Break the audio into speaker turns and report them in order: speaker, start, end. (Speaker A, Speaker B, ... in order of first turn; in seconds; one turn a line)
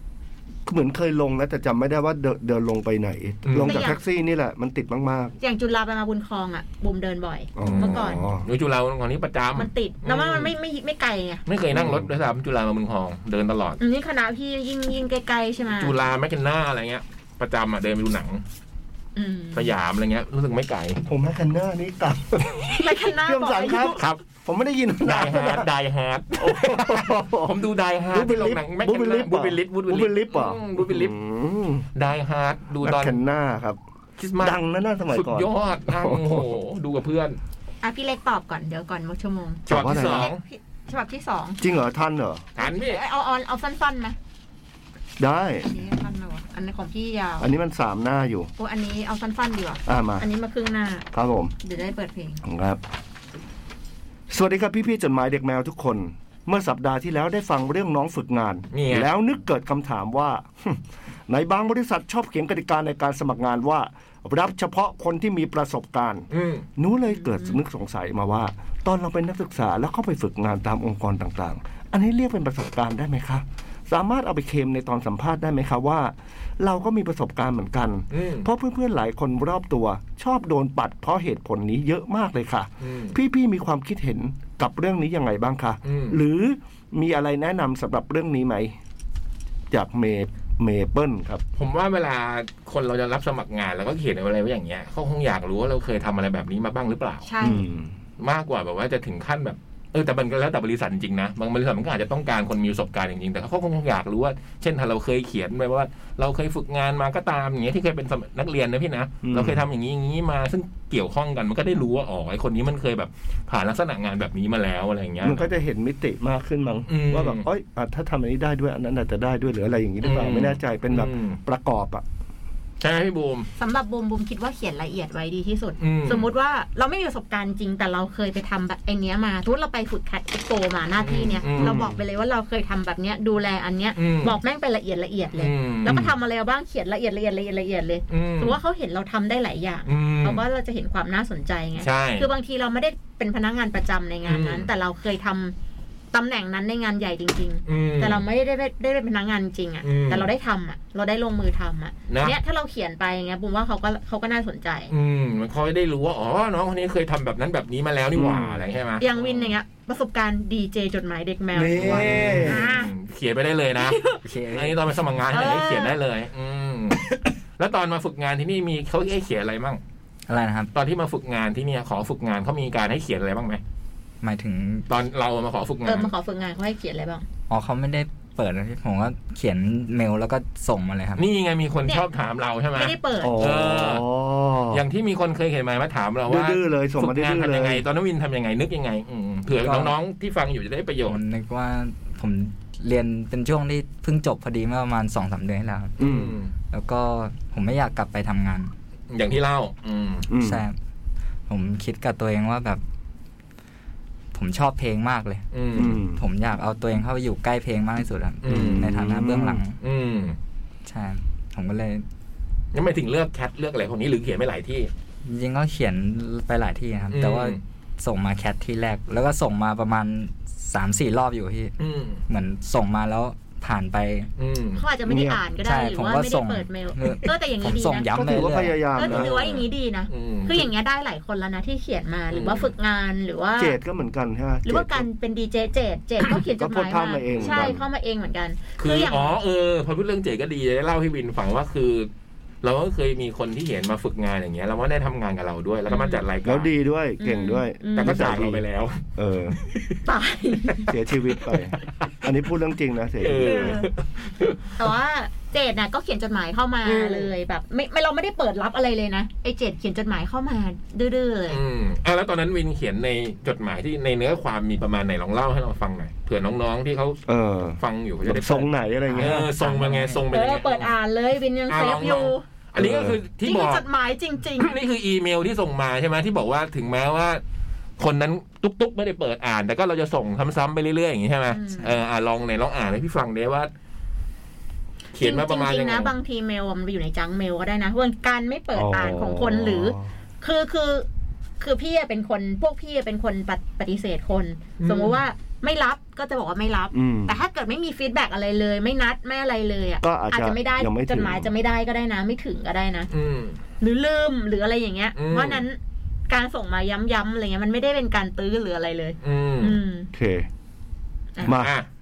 Speaker A: 0.7-5.3
Speaker B: 3.4-3.8
Speaker C: 3.6-4.0
Speaker C: 5.4-8.2
Speaker A: 7.6-8.4
Speaker B: 7.6-10.5
Speaker C: 9.6-11.4
Speaker B: 11.5-13.8
Speaker A: 11.7-12.1
Speaker C: 13.8-15.9
Speaker B: 15.8-18.4
Speaker C: 19.1-19.7
Speaker B: 19.5-21.0
Speaker A: 21.0-22.4
Speaker C: 22.7-24.0
Speaker A: 23.2-25.7
Speaker B: 23.9-24.2
Speaker B: 25.0-31.1
Speaker A: 26.4-27.5
Speaker A: 28.1-31.9
Speaker B: 31.9-33.1
Speaker A: 32.8-33.8
Speaker B: 34.2-37.4
Speaker A: 34.4-36.5
Speaker C: 37.8-41.6
Speaker B: 39.7-40.4
Speaker A: 39.7-40.3
Speaker A: 41.6-42.4
Speaker B: 42.5-43.0
Speaker C: 42.6-44.1
Speaker A: 45.2-45.6
Speaker C: 45.6-47.5
Speaker A: 47.4-48.5
Speaker C: 48.6-51.1
Speaker A: 49.9-50.2
Speaker A: 51.1-51.5
Speaker C: 51.6-52.4
Speaker A: 52.4-52.8
Speaker A: 54.3-88.7
Speaker B: 58.7-59.1
Speaker B: 66.3-66.7
Speaker C: 67.1-67.6
Speaker B: 78.1-78.5
Speaker B: 82.8-83.2
Speaker B: 85.8-86.2
Speaker A: 89.7-91.4
Speaker B: 91.5-97.2
Speaker C: 97.2-97.6
Speaker A: 97.4-97.9
Speaker B: 98.2-115.5
Speaker A: 109.2-109.6
Speaker A: 115.2-122.0
Speaker B: 116.9-117.4
Speaker B: 120.0-121.4
Speaker B: 122.8-123.5
Speaker C: 123.6-145.5
Speaker B: 125.8-126.3
Speaker B: 131.0-131.9
Speaker A: 131.5-132.0
Speaker B: 133.9-134.3
Speaker B: 135.4-136.0
Speaker A: 135.8-136.1
Speaker B: 138.1-138.6
Speaker B: 139.9-140.4
Speaker B: 141.8-142.3
Speaker B: 144.2-144.7
Speaker C: 146.1-154.9
Speaker B: 147.7-148.2
Speaker B: 149.8-150.3
Speaker B: 152.1-152.3
Speaker B: 154.9-159.5
Speaker A: 158.1-158.6
Speaker C: 159.0-162.9
Speaker A: 161.5-162.6
Speaker B: 161.8-164.0
Speaker C: 163.8-164.2
Speaker D: 164.2-165.0
Speaker B: 164.5-169.8
Speaker C: 165.3-166.0
Speaker D: 170.3-170.7
Speaker B: 170.7-173.6
Speaker D: 174.2-174.8
Speaker B: 174.9-176.1
Speaker C: 175.8-177.2
Speaker D: 177.5-181.2
Speaker B: 181.2-184.0
Speaker C: 182.7-183.4
Speaker A: 183.2-184.8
Speaker B: 184.7-191.2
Speaker A: 186.3-187.8
Speaker D: 189.5-189.9
Speaker D: 191.1-196.0
Speaker B: 196.0-196.5
Speaker A: 196.0-196.4
Speaker D: 196.7-198.7
Speaker B: 199.1-200.3
Speaker A: 200.3-200.6
Speaker D: 200.3-200.8
Speaker D: 201.5-202.8
Speaker D: 204.3-209.8
Speaker B: 205.5-206.0
Speaker A: 205.7-206.2
Speaker B: 208.4-208.9
Speaker A: 208.5-209.6
Speaker B: 209.8-210.4
Speaker D: 210.8-212.0
Speaker B: 212.7-214.9
Speaker D: 215.2-221.7
Speaker B: 217.1-217.6
Speaker B: 221.8-222.2
Speaker D: 222.3-224.3
Speaker B: 224.4-224.8
Speaker C: 224.8-233.8
Speaker A: 225.1-225.4
Speaker D: 225.6-228.8
Speaker A: 228.1-229.3
Speaker B: 229.0-230.7
Speaker B: 232.3-232.7
Speaker A: 233.6-235.0
Speaker C: 234.6-239.3
Speaker A: 236.4-237.8
Speaker B: 237.3-237.7
Speaker B: 238.8-242.1
Speaker B: 242.6-246.7
Speaker C: 245.9-246.2
Speaker A: 246.4-248.6
Speaker C: 247.2-248.2
Speaker B: 248.0-249.0
Speaker A: 249.2-249.6
Speaker B: 249.5-250.0
Speaker C: 250.1-250.9
Speaker B: 250.8-252.3
Speaker A: 250.9-253.8
Speaker B: 253.2-254.7
Speaker C: 253.4-253.9
Speaker C: 254.8-261.6
Speaker B: 256.8-257.3
Speaker B: 261.5-267.2
Speaker A: 267.3-269.5
Speaker B: 267.8-270.9
Speaker C: 269.2-272.4
Speaker B: 271.7-273.8
Speaker A: 272.8-273.2
Speaker C: 273.4-274.8
Speaker B: 274.6-277.4
Speaker B: 278.0-283.7
Speaker C: 281.5-282.0
Speaker B: 285.1-286.1
Speaker C: 285.2-291.1
Speaker A: 288.8-290.1
Speaker C: 291.6-303.1
Speaker B: 294.8-295.2
Speaker A: 296.9-297.4
Speaker A: 300.0-301.5
Speaker B: 303.1-303.6
Speaker C: 303.8-310.1
Speaker B: 305.1-305.6
Speaker B: 309.2-309.8
Speaker A: 310.1-310.5
Speaker A: 311.4-311.7
Speaker B: 311.4-311.9